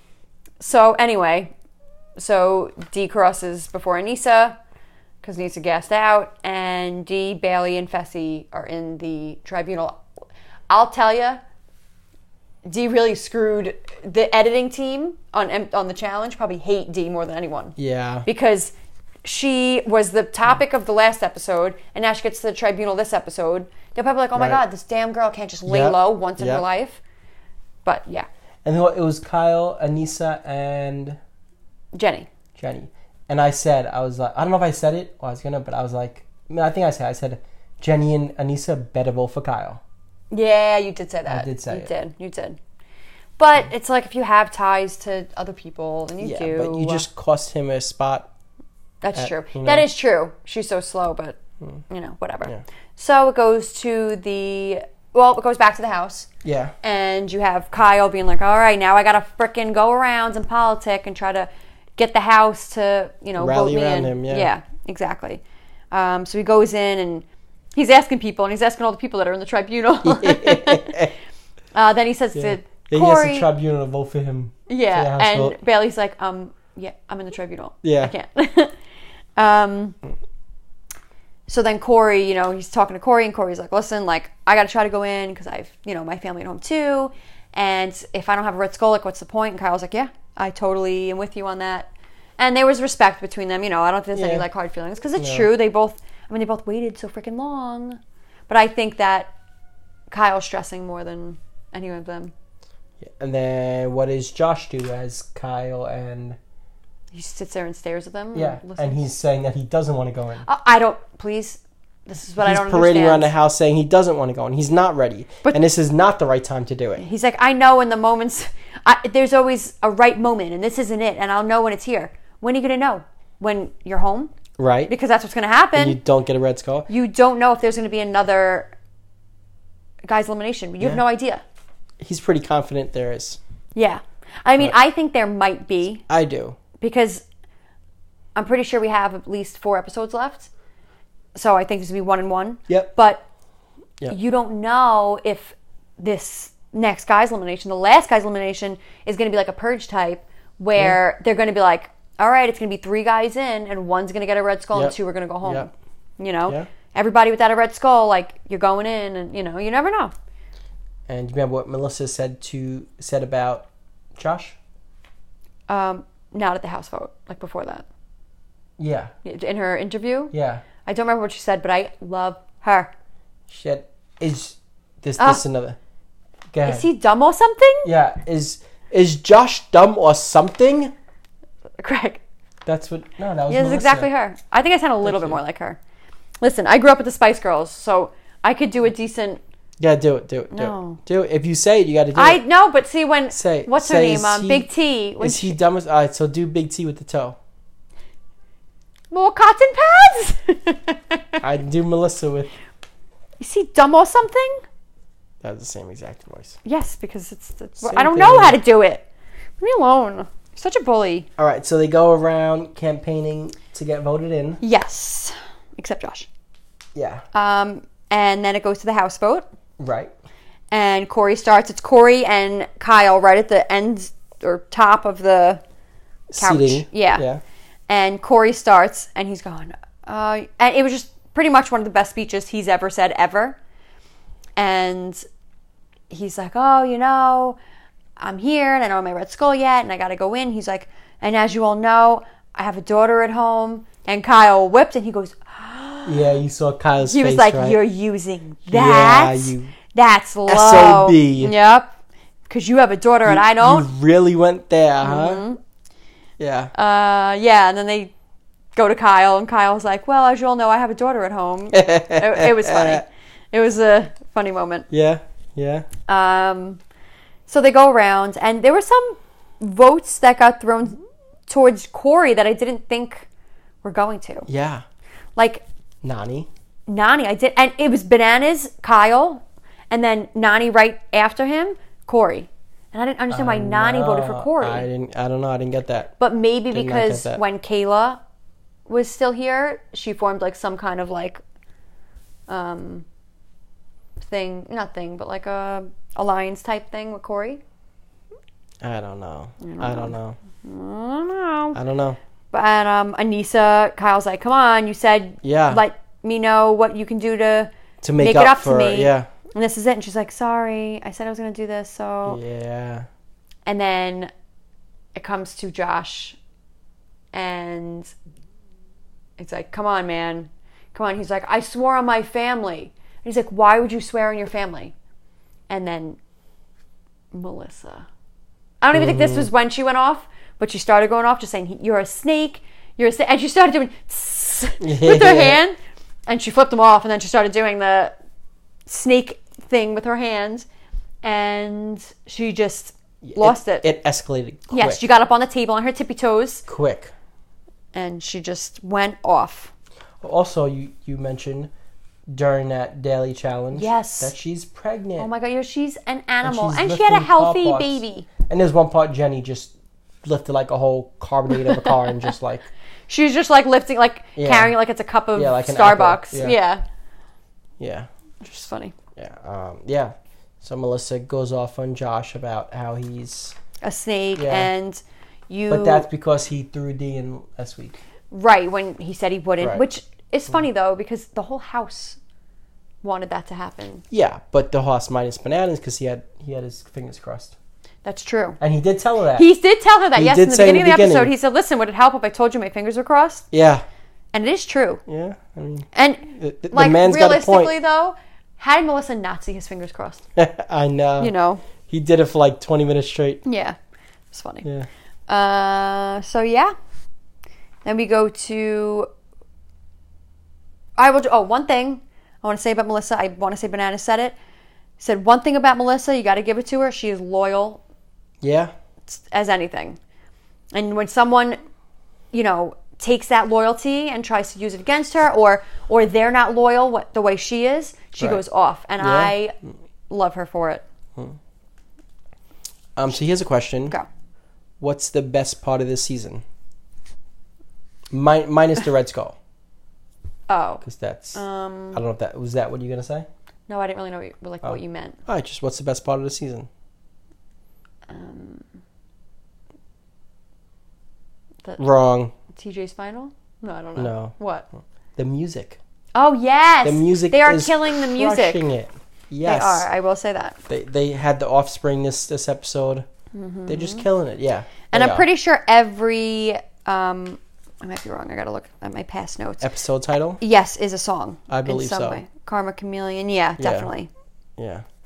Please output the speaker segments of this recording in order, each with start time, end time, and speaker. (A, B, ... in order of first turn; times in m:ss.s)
0:00.6-0:01.5 A
0:02.2-0:04.6 A
0:05.2-0:10.0 A
0:10.7-0:11.4 A
0:12.6-0:27.0 A
0:17.8-0:18.3 B
0:24.4-0:24.6 B
0:25.7-0:26.6 B
0:27.8-0:28.3 A
0:28.6-0:31.2 B
0:31.9-0:32.3 A
0:32.6-0:39.8 B
0:40.3-0:42.6 A
0:41.3-0:41.9 B
0:43.4-0:47.1 A
0:46.2-0:48.3 B
0:49.0-0:51.4 A
0:49.2-0:49.9 B
0:51.9-0:56.3 A
0:56.4-0:56.7 B
0:56.8-1:11.1 A
1:03.4-1:04.5 B
1:10.0-1:11.2 B
1:11.7-1:13.5 A
1:12.4-1:15.6 B
1:14.7-1:18.8 A
1:17.8-1:18.1 B
1:19.4-1:20.0 A
1:21.5-1:39.3 A
1:34.1-1:34.5 B
1:35.2-1:35.5 B
1:40.1-1:42.3 A
1:43.0-1:46.4 B
1:47.1-1:49.1 A
1:48.3-1:50.5 B
1:50.4-1:53.3 A
1:52.4-1:57.0 B
1:57.0-2:04.3 A
2:04.6-2:04.9 B
2:04.9-2:06.0 A
2:05.8-2:06.9 B
2:06.9-2:08.7 A
2:10.1-2:11.4 A
2:12.0-2:13.4 B
2:13.8-2:16.0 A
2:16.1-2:16.6 B
2:16.8-2:17.2 A
2:18.4-2:20.5 A
2:21.4-2:23.2 A
2:24.1-2:40.1 A
2:34.7-2:35.7 B
2:41.1-2:44.6 B
2:45.7-2:47.9 A
2:48.8-2:49.1 B
2:49.2-2:50.3 A
2:50.3-2:50.6 B
2:50.8-2:52.9 A
2:53.5-2:55.8 B
2:56.5-2:56.9 B
2:56.6-2:57.9 A
2:57.8-3:00.9 B
3:01.8-3:02.2 A
3:02.7-3:04.1 B
3:03.5-3:05.8 A
3:05.0-3:05.4 B
3:06.4-3:09.4 A
3:09.8-3:12.4 B
3:10.5-3:11.0 A
3:12.2-3:15.6 A
3:13.3-3:14.7 B
3:15.2-3:17.4 B
3:19.1-3:21.4 A
3:21.4-3:22.5 B
3:23.4-3:24.6 A
3:25.4-3:26.6 B
3:26.6-3:29.0 A
3:27.8-3:28.6 B
3:29.6-3:31.3 A
3:31.4-3:34.6 B
3:34.6-3:36.3 A
3:37.0-3:37.2 B
3:37.3-3:39.5 A
3:39.8-3:40.1 B
3:40.7-3:45.6 A
3:46.3-3:47.4 B
3:46.4-3:47.2 A
3:47.9-3:53.6 A
3:54.6-3:55.2 A
3:56.1-3:57.6 A
3:58.2-4:06.4 A
4:06.1-4:07.8 B
4:07.0-4:12.0 A
4:08.7-4:09.7 B
4:10.5-4:11.6 B
4:12.5-4:13.9 A
4:13.2-4:15.4 B
4:15.0-4:15.6 A
4:16.4-4:16.7 B
4:16.7-4:18.1 A
4:18.8-4:24.9 A
4:21.7-4:23.0 B
4:24.9-4:25.9 B
4:26.1-4:26.8 A
4:27.5-4:33.3 A
4:33.8-4:34.5 A
4:34.5-4:34.8 B
4:35.4-4:35.6 A
4:36.0-4:36.5 B
4:36.9-4:44.9 A
4:43.3-4:46.1 B
4:46.2-4:48.2 A
4:46.7-4:47.4 B
4:48.9-4:51.4 A
4:52.5-4:53.0 A
4:54.2-4:57.6 A
4:58.8-5:00.4 B
4:59.6-5:01.8 A
5:01.7-5:02.2 B
5:02.5-5:12.4 A
5:05.4-5:05.8 B
5:08.0-5:09.3 B
5:12.3-5:13.1 B
5:13.7-5:14.3 A
5:15.2-5:16.4 A
5:17.3-5:18.1 A
5:19.4-5:24.9 A
5:25.7-5:26.2 A
5:27.3-5:28.1 A
5:28.8-5:38.1 A
5:28.9-5:29.5 B
5:34.8-5:35.6 B
5:38.9-5:40.7 A
5:41.2-5:43.8 A
5:43.2-5:45.0 B
5:44.7-5:46.6 A
5:46.7-5:47.1 B
5:47.9-5:49.7 A
5:50.2-5:51.7 B
5:52.3-5:55.3 B
5:53.7-5:54.3 A
5:55.2-5:58.3 A
5:56.4-5:59.7 B
6:00.2-6:02.7 B
6:01.6-6:02.2 A
6:03.1-6:06.8 A
6:04.4-6:04.7 B
6:05.4-6:06.6 B
6:07.8-6:08.1 B
6:08.4-6:09.0 A
6:09.2-6:13.6 B
6:13.8-6:16.1 A
6:14.4-6:14.7 B
6:15.7-6:18.0 B
6:18.3-6:22.2 A
6:23.0-6:24.0 A
6:24.1-6:27.6 B
6:28.0-6:28.6 A
6:28.6-6:29.5 B
6:29.4-6:33.4 A
6:30.2-6:31.3 B
6:33.5-6:33.8 B
6:34.3-6:35.0 A
6:35.1-6:37.8 B
6:35.9-6:40.2 A
6:40.4-6:41.3 B
6:41.2-6:41.6 A
6:41.9-6:43.4 B
6:43.4-6:43.8 A
6:44.3-6:44.6 A
6:45.3-6:46.7 A
6:47.8-6:49.1 A
6:51.0-6:54.4 A
6:55.0-6:57.8 A
6:58.4-6:58.7 B
6:59.1-7:00.0 A
7:00.7-7:01.6 A
7:02.3-7:09.6 A
7:09.0-7:09.4 B
7:10.1-7:10.8 A
7:13.0-7:14.0 B
7:14.8-7:16.4 B
7:18.1-7:19.4 B
7:20.5-7:20.8 A
7:20.8-7:21.4 B
7:21.4-7:22.0 A
7:21.9-7:23.3 B
7:23.7-7:25.2 A
7:24.6-7:26.7 B
7:28.1-7:28.7 A
7:31.8-7:32.3 B
7:32.5-7:34.7 A
7:34.0-7:34.4 B
7:35.2-7:35.8 B
7:36.2-7:38.6 A
7:36.8-7:39.9 B
7:39.4-7:40.6 A
7:40.7-7:43.1 B
7:43.3-7:44.1 A
7:43.7-7:45.2 B
7:44.9-7:49.6 A
7:49.6-7:50.4 B
7:50.4-7:54.1 A
7:51.5-7:52.2 B
7:53.6-7:53.9 B
7:54.6-7:54.8 B